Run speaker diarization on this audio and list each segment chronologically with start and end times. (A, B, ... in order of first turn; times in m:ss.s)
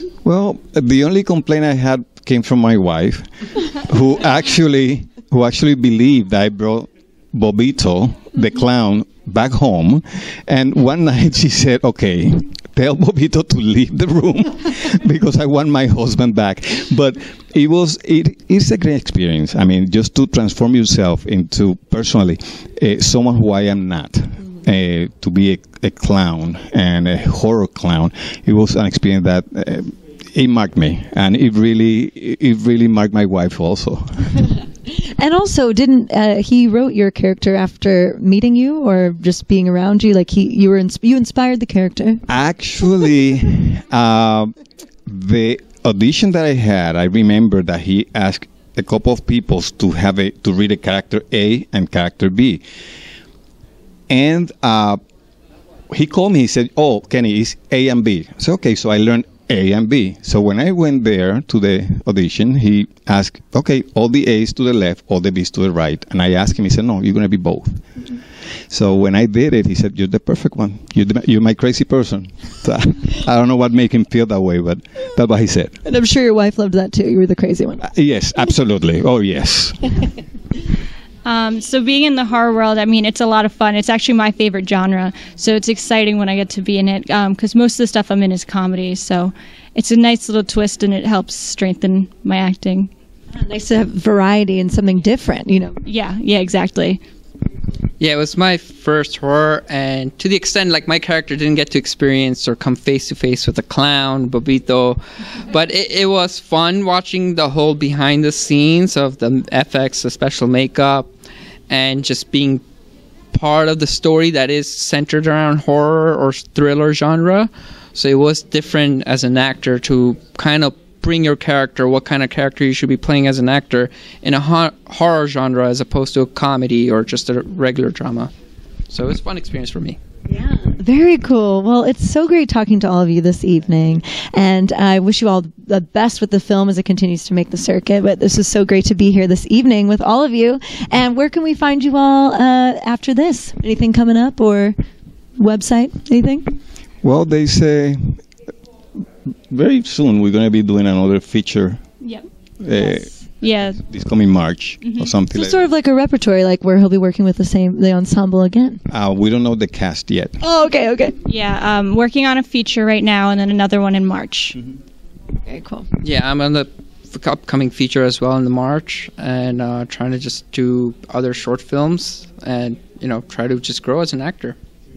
0:00.2-0:34.4 A
0:34.9-0:42.2 B
0:42.3-0:44.5 A
0:45.1-0:52.6 A
0:54.1-0:55.0 A
0:55.9-1:07.8 A
1:08.7-1:15.7 A
1:15.8-1:17.8 B
1:17.8-1:19.9 A
1:21.2-1:32.9 C
1:33.3-1:35.8 B
1:35.8-1:37.0 C
1:38.0-1:51.1 D
1:51.7-1:52.6 D
1:53.3-2:08.3 D
2:08.9-2:10.0 D
2:10.3-2:24.8 B
2:25.4-2:26.5 B
2:27.0-2:28.2 A
2:29.5-2:31.8 A
2:32.6-2:35.6 A
2:32.9-2:33.8 C
2:34.8-2:35.1 C
2:35.3-2:38.8 B
2:38.9-2:40.4 A
2:40.4-2:41.2 B
2:41.2-2:44.6 C
2:45.4-2:45.9 B
2:46.0-2:54.6 D